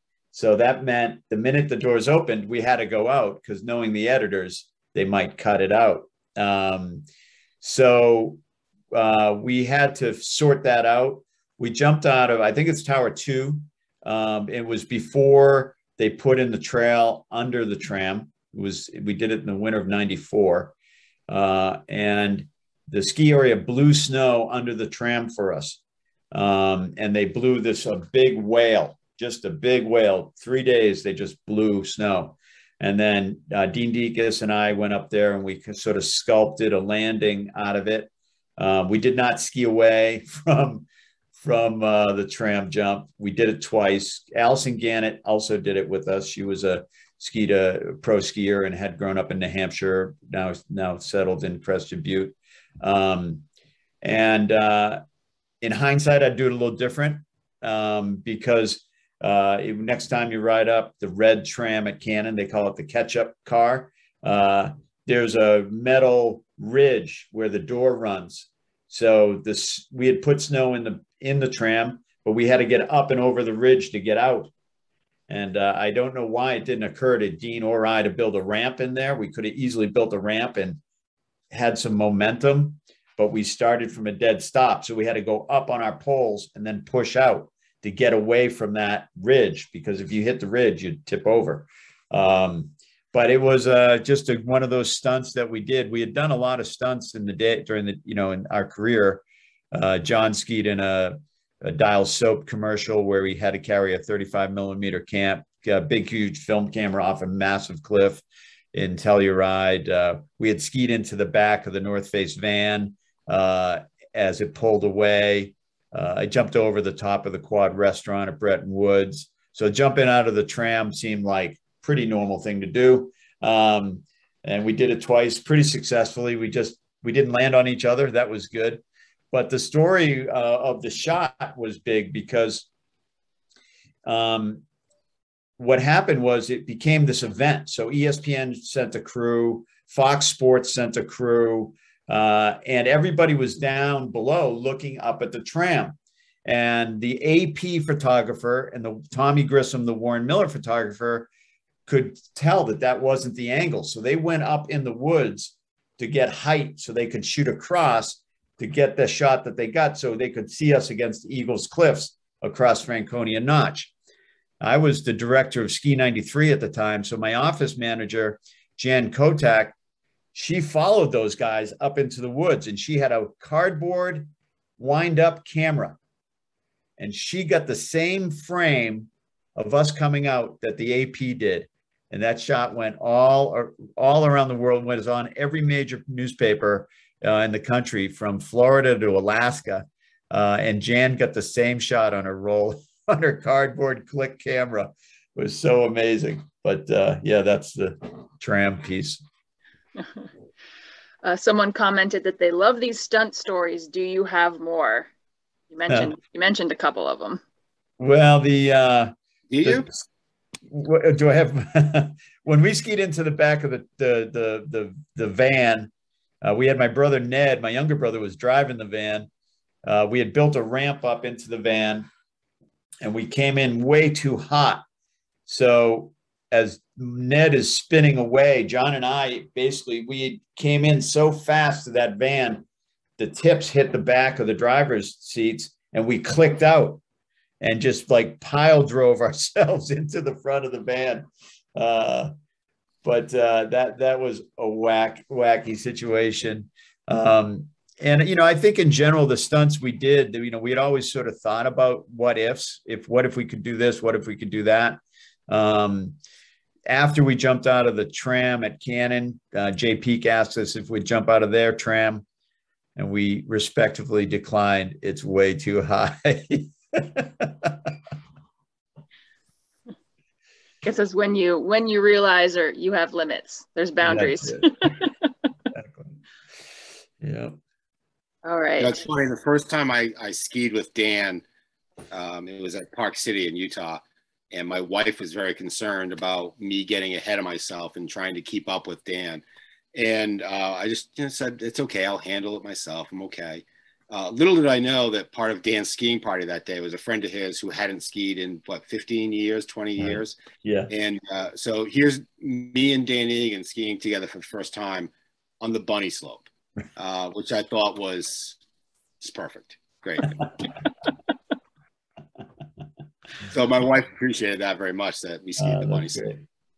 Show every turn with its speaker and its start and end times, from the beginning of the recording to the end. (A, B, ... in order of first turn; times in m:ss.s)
0:00.3-0:07.0 A
0:07.6-0:08.4 A
0:08.9-0:20.7 A
0:21.3-0:25.8 A
0:26.3-0:53.4 A
0:54.0-0:55.0 A
0:55.6-1:14.5 A
1:15.3-1:20.8 A
1:21.5-2:12.7 A
2:14.0-2:14.6 A
2:15.6-2:31.3 A
2:31.9-2:43.9 A
2:44.6-2:49.8 A
2:50.3-2:56.0 A
2:57.0-3:19.2 A
3:21.2-3:25.1 B
3:25.7-3:27.4 B
3:25.9-3:26.1 A
3:28.0-3:29.1 A
3:29.5-3:29.9 C
3:29.6-3:30.0 A
3:30.7-3:35.9 A
3:36.4-3:39.3 A
3:39.9-3:42.1 A
3:43.0-3:44.8 A
3:45.5-3:52.6 A
3:53.2-3:57.0 A
3:57.6-4:02.3 A
4:03.0-4:16.2 A
4:16.9-4:22.2 A
4:23.0-4:27.9 A
4:30.8-4:35.1 B
4:34.0-4:34.8 A
4:35.7-4:36.2 A
4:37.2-4:37.6 A
4:38.4-4:39.0 B
4:38.8-4:41.4 C
4:42.1-4:49.4 C
4:49.9-5:00.4 C
5:00.0-5:00.9 A
5:00.9-5:05.1 C
5:05.6-5:08.6 C
5:09.2-5:10.6 C
5:13.5-5:16.3 C
5:15.6-5:16.4 A